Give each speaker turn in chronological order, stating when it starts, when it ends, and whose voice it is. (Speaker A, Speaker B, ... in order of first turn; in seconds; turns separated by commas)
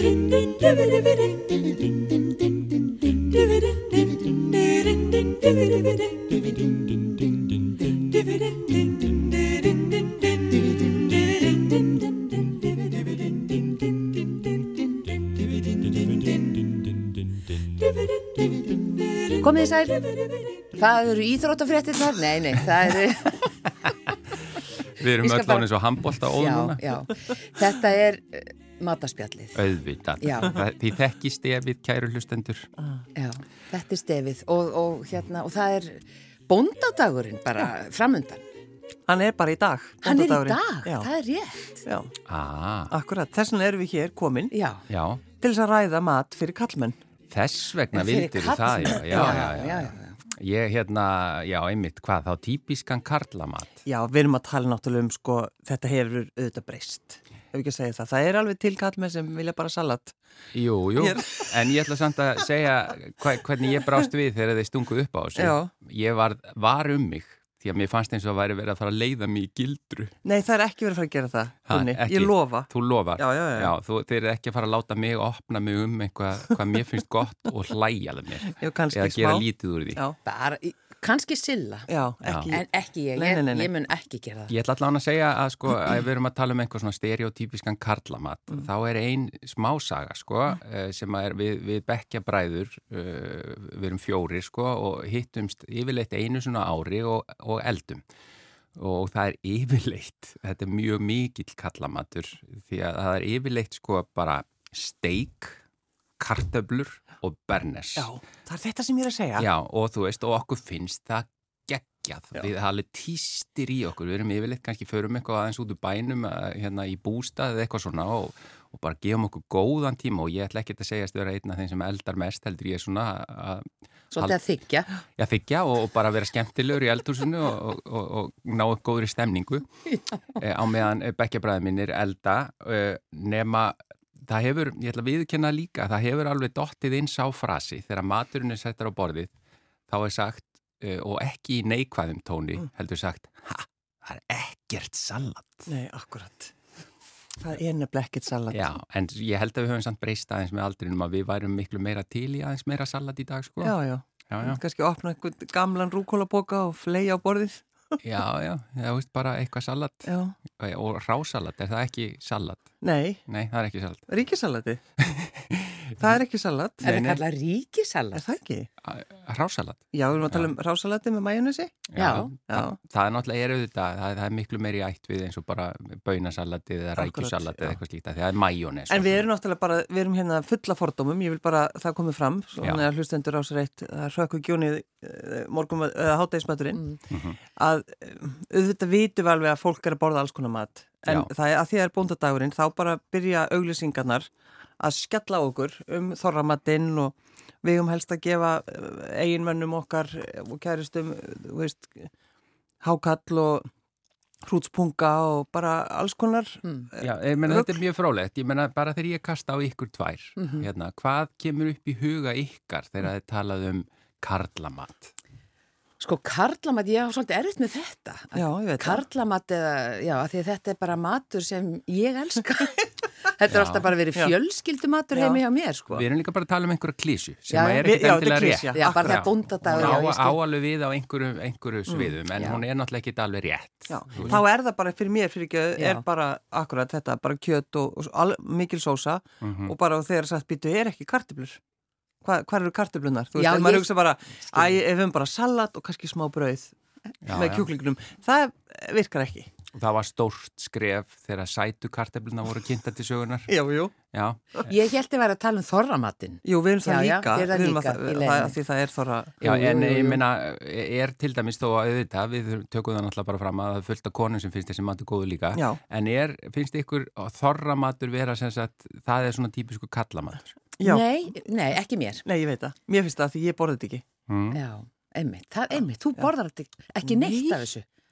Speaker A: 19.3-23.5, Speaker B: 25.0-26.9, Speaker A: 25.2-25.7, Speaker A: 26.3-29.6, Speaker B: 29.6-32.7, Speaker A: 30.2-30.6, Speaker A: 33.1-38.4, Speaker C: 39.1-41.1, Speaker A: 40.0-41.9, Speaker C: 41.9-42.1, Speaker B: 42.2-42.9, Speaker C: 42.9-44.5, Speaker A: 44.5-44.9, Speaker B: 44.9-45.2, Speaker C: 45.4-47.0, Speaker B: 47.3-53.8, Speaker A: 47.9-50.2, Speaker C: 49.1-49.5, Speaker C: 53.9-60.1, Speaker B: 60.5-70.1, Speaker C: 61.0-61.6, Speaker C: 65.4-65.7, Speaker C: 70.2-73.7, Speaker B: 71.7-80.0, Speaker C: 78.5-80.2, Speaker A: 80.2-81.9, Speaker C: 81.9-83.7, Speaker B: 82.2-82.6, Speaker A: 82.5-84.5, Speaker B: 84.5-98.0, Speaker B: 98.8-105.6, Speaker B: 106.2-108.1, Speaker C: 108.0-109.5, Speaker B: 109.4-124.4, Speaker A: 124.1-124.9, Speaker B: 125.2-129.7, Speaker B: 130.3-139.3, Speaker B: 139.9-145.7, Speaker C: 145.7-146.5, Speaker C: 147.4-148.7, Speaker B: 148.5-153.8, Speaker C: 153.6-157.6, Speaker B: 154.3-154.6, Speaker B: 158.0-162.7, Speaker C: 160.1-160.4, Speaker C: 162.8-163.2, Speaker B: 163.3-164.1, Speaker C: 164.1-164.8, Speaker B: 165.0-165.8, Speaker C: 165.9-166.9, Speaker B: 166.8-167.2, Speaker A: 166.8-168.3, Speaker C: 168.1-168.7, Speaker B: 168.8-170.5, Speaker C: 169.9-171.9, Speaker B: 171.9-179.3, Speaker A: 172.0-172.3, Speaker C: 172.5-172.8, Speaker C: 177.0-177.8, Speaker C: 178.9-187.0, Speaker B: 182.6-182.9, Speaker B: 187.1-187.4, Speaker C: 187.6-194.3, Speaker C: 194.8-202.1, Speaker C: 202.8-203.7, Speaker C: 204.4-207.8, Speaker B: 207.0-215.1, Speaker A: 210.4-210.7, Speaker A: 216.0-226.1, Speaker C: 218.3-219.0, Speaker B: 223.5-223.9, Speaker C: 225.1-225.4, Speaker B: 225.9-234.4, Speaker A: 227.5-228.0, Speaker C: 227.8-230.0, Speaker A: 228.7-230.4, Speaker C: 231.9-232.2, Speaker A: 232.4-232.6, Speaker C: 233.9-241.6, Speaker A: 235.8-236.0, Speaker B: 239.4-239.8, Speaker C: 242.2-246.7, Speaker A: 243.3-243.9, Speaker B: 247.2-247.7, Speaker C: 247.3-249.5, Speaker B: 249.8-253.5, Speaker C: 253.5-253.9, Speaker B: 254.1-254.7, Speaker A: 254.7-258.6, Speaker C: 256.4-260.2, Speaker B: 259.4-270.6, Speaker C: 265.5-265.8, Speaker C: 270.8-271.1, Speaker A: 270.8-272.2, Speaker C: 272.2-274.0, Speaker B: 274.3-274.6, Speaker A: 274.5-277.8, Speaker C: 277.0-277.7